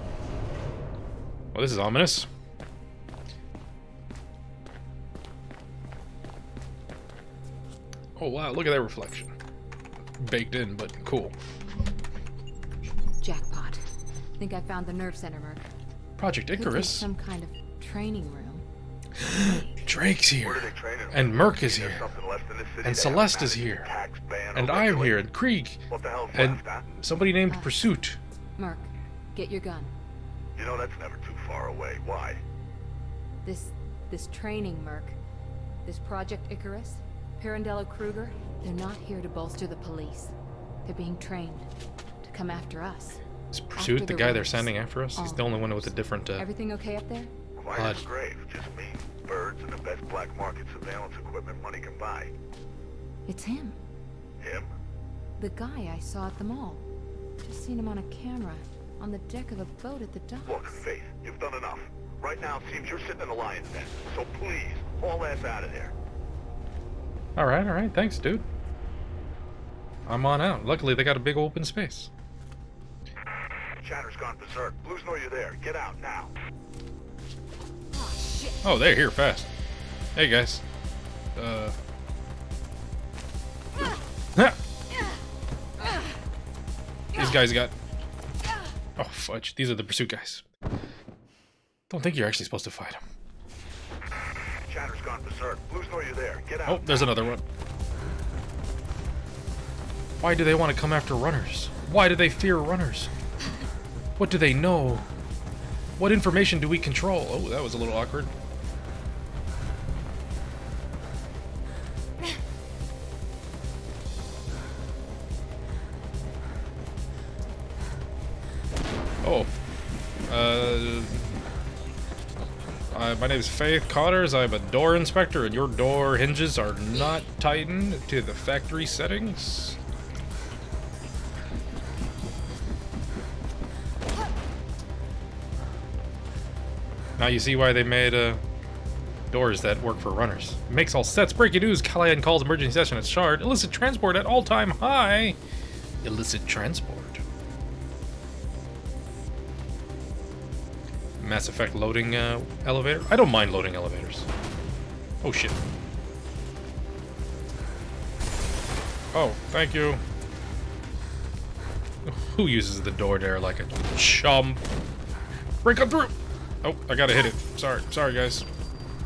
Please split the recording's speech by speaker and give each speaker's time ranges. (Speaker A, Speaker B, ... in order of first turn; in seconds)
Speaker A: 1.5-2.3, 8.2-9.3, 10.2-11.3, 16.2-17.1, 19.2-22.1, 22.8-23.9, 24.6-25.8, 26.3-28.2, 43.5-46.5, 47.8-48.0, 67.4-68.5, 70.1-72.1, 78.6-79.5, 80.2-80.6, 81.4-81.8, 87.2-87.7, 89.0-90.4, 91.9-93.0, 96.7-97.4, 100.2-103.1, 104.2-105.1, 106.0-108.3, 119.2-119.5, 120.3-121.4, 122.9-129.8, 137.2-138.4, 139.3-145.4, 146.0-147.2, 151.2-154.3, 155.2-155.6, 159.1-160.0, 162.1-164.6, 165.6-168.5
Speaker B: 13.2-13.8, 14.4-15.7, 16.6-18.6, 27.5-27.9, 28.6-29.9, 33.4-35.2, 35.9-41.7, 42.2-43.2, 43.8-47.3, 53.3-53.8, 55.4-56.9, 57.4-60.8, 77.9-78.6
Speaker C: 20.4-25.3, 25.9-26.9, 30.6-32.4, 47.6-52.3, 54.4-54.7, 60.5-65.9, 73.8-76.3, 94.7-97.1